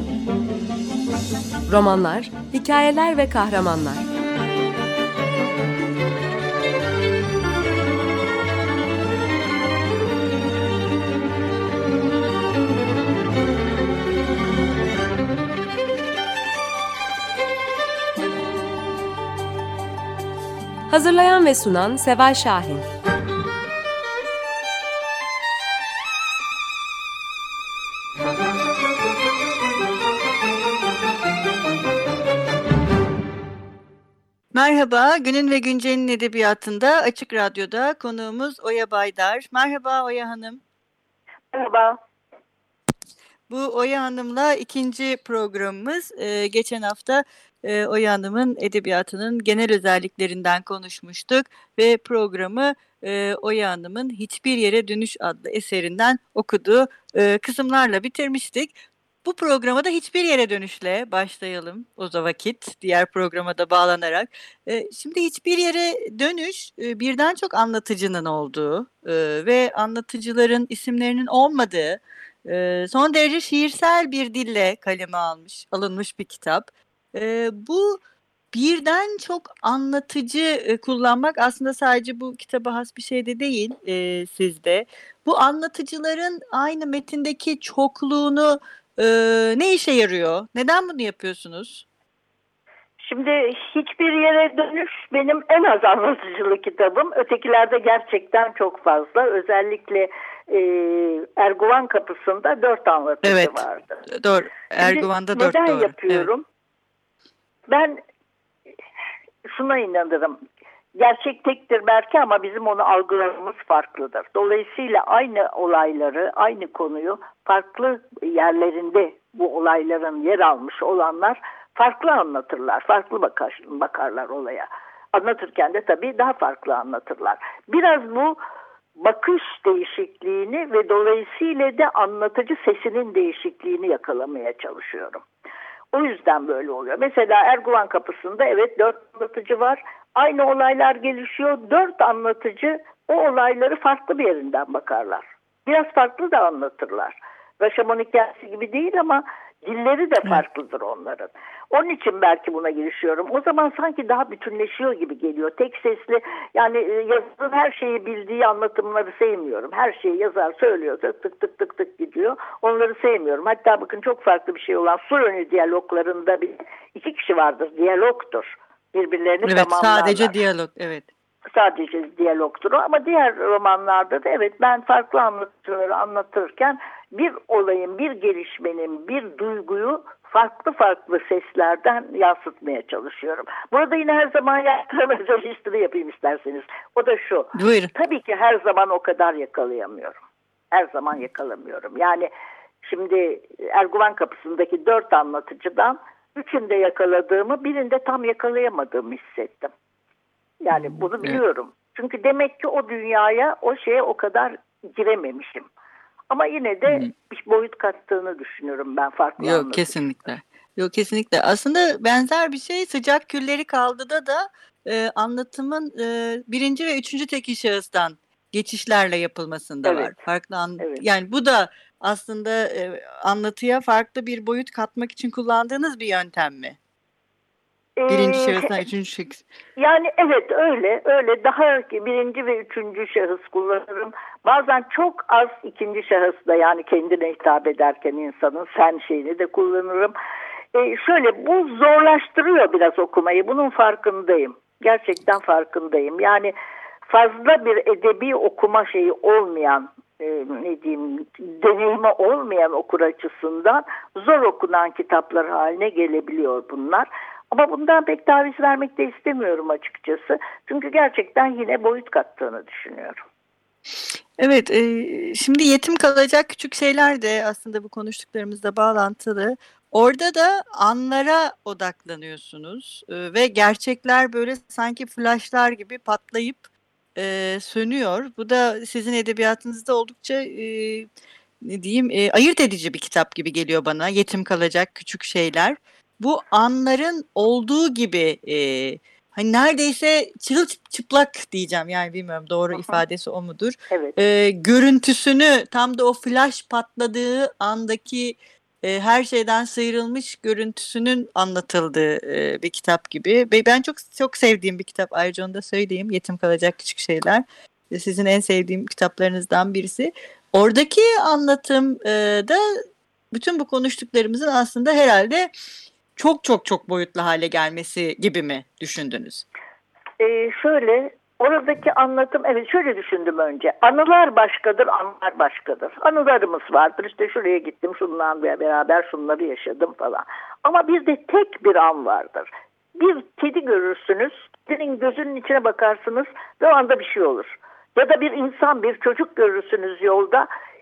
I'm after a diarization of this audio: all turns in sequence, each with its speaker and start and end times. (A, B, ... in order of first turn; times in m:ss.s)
0:01.7-0:04.0 A
0:20.9-0:22.8 A
0:34.5-0:40.6 B
0:41.5-0:42.0 C
0:43.5-1:18.0 B
1:18.5-1:31.8 B
1:33.0-1:44.0 C
1:43.2-1:46.3 B
1:44.8-1:46.4 C
1:47.7-1:48.0 C
1:49.4-1:50.4 C
1:51.0-2:08.4 C
2:09.0-2:15.2 C
2:15.9-2:50.3 C
2:49.4-2:51.1 B
2:51.5-3:10.2 C
3:07.5-3:07.9 B
3:10.7-3:12.3 C
3:12.8-3:19.7 C
3:20.6-3:25.7 C
3:20.8-3:21.4 B
3:26.3-3:29.9 C
3:29.4-3:46.8 B
3:39.8-3:40.1 C
3:48.0-3:48.8 C
3:48.1-3:49.4 B
3:49.8-4:00.1 C
4:00.7-4:06.5 C
4:07.0-4:23.2 C
4:24.4-4:41.1 B
4:41.6-5:12.8 B
5:13.3-5:15.5 B
5:16.2-5:19.4 B
5:20.2-5:40.5 C